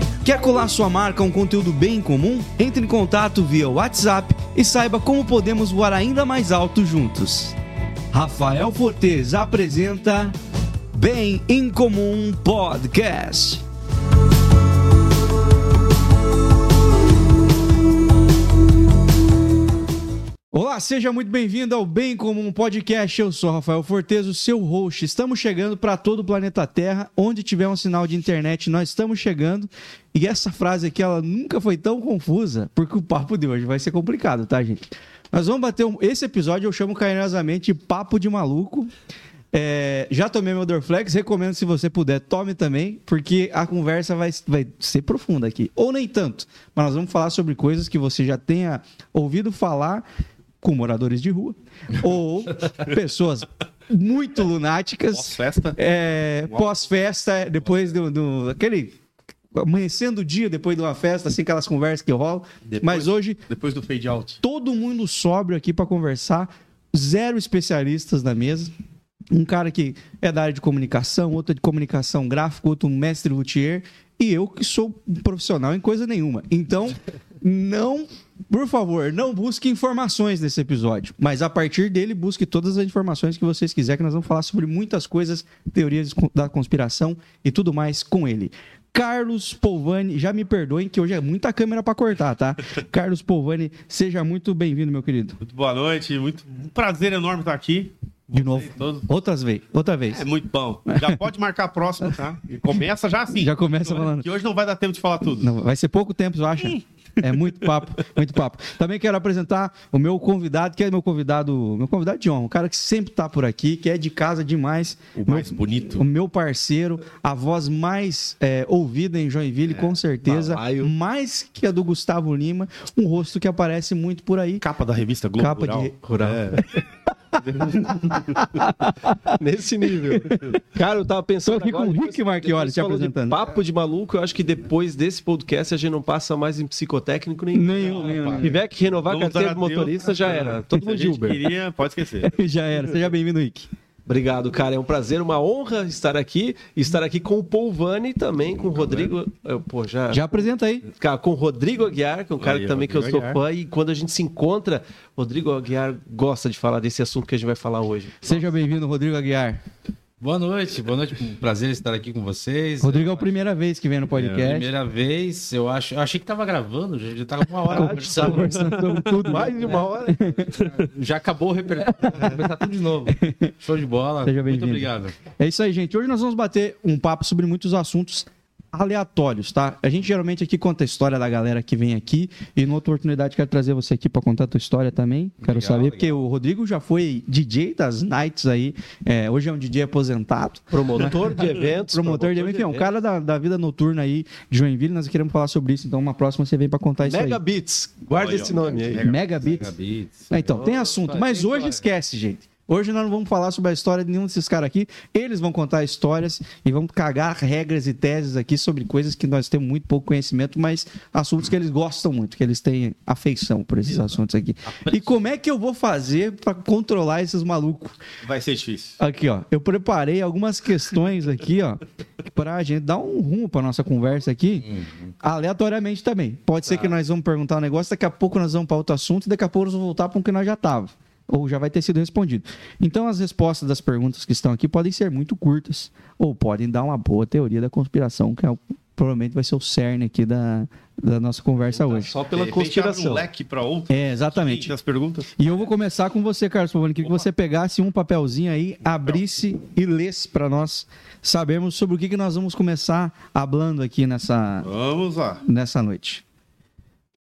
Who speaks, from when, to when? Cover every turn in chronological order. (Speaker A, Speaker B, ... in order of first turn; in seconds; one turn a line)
Speaker A: 0.2-7.6
Speaker A: 8.1-10.3
Speaker A: 10.9-13.6
Speaker A: 20.5-38.9
Speaker A: 39.5-50.0
Speaker A: 50.6-59.0
Speaker B: 55.1-55.8
Speaker B: 56.5-56.8
Speaker A: 59.5-63.4
Speaker B: 62.7-64.4
Speaker A: 64.4-68.7
Speaker A: 69.3-95.4
Speaker B: 95.4-99.1
Speaker A: 98.3-100.2
Speaker B: 100.1-105.5
Speaker A: 100.9-101.2
Speaker A: 103.4-104.2
Speaker A: 105.4-124.6
Speaker B: 106.6-107.7
Speaker B: 115.1-116.1
Speaker B: 119.7-120.0
Speaker C: 120.2-120.9
Speaker B: 124.6-126.6
Speaker A: 125.4-126.0
Speaker C: 126.0-126.8
Speaker B: 127.4-128.6
Speaker A: 128.4-129.4
Speaker C: 129.3-141.4
Speaker A: 130.2-130.6
Speaker A: 131.4-133.5
Speaker A: 137.5-138.6
Speaker D: 137.7-138.5
Speaker B: 139.1-142.4
Speaker A: 142.2-143.7
Speaker C: 144.1-158.5
Speaker B: 148.6-149.1
Speaker A: 150.1-150.8
Speaker B: 152.4-153.4
Speaker A: 158.2-159.6
Speaker D: 160.2-163.5
Speaker A: 162.8-164.7
Speaker B: 164.1-164.4
Speaker D: 164.2-168.6
Speaker A: 167.6-170.4
Speaker B: 167.8-169.4
Speaker C: 169.2-170.4
Speaker D: 169.6-169.8
Speaker D: 170.4-175.1
Speaker B: 170.6-170.8
Speaker A: 171.8-172.5
Speaker A: 173.1-173.5
Speaker A: 174.2-197.4
Speaker D: 185.4-186.2
Speaker C: 190.7-192.9
Speaker C: 197.0-199.1
Speaker B: 198.1-199.5
Speaker A: 199.0-199.7
Speaker D: 199.4-201.8
Speaker A: 200.3-218.0
Speaker C: 200.6-200.9
Speaker D: 214.7-215.2
Speaker B: 218.2-219.0
Speaker A: 219.0-224.7
Speaker D: 224.6-225.1
Speaker A: 225.2-242.1
Speaker C: 226.7-226.9
Speaker C: 241.7-243.2
Speaker B: 242.3-245.6
Speaker A: 243.9-244.7
Speaker A: 245.4-254.7
Speaker B: 254.6-255.4
Speaker A: 255.4-256.2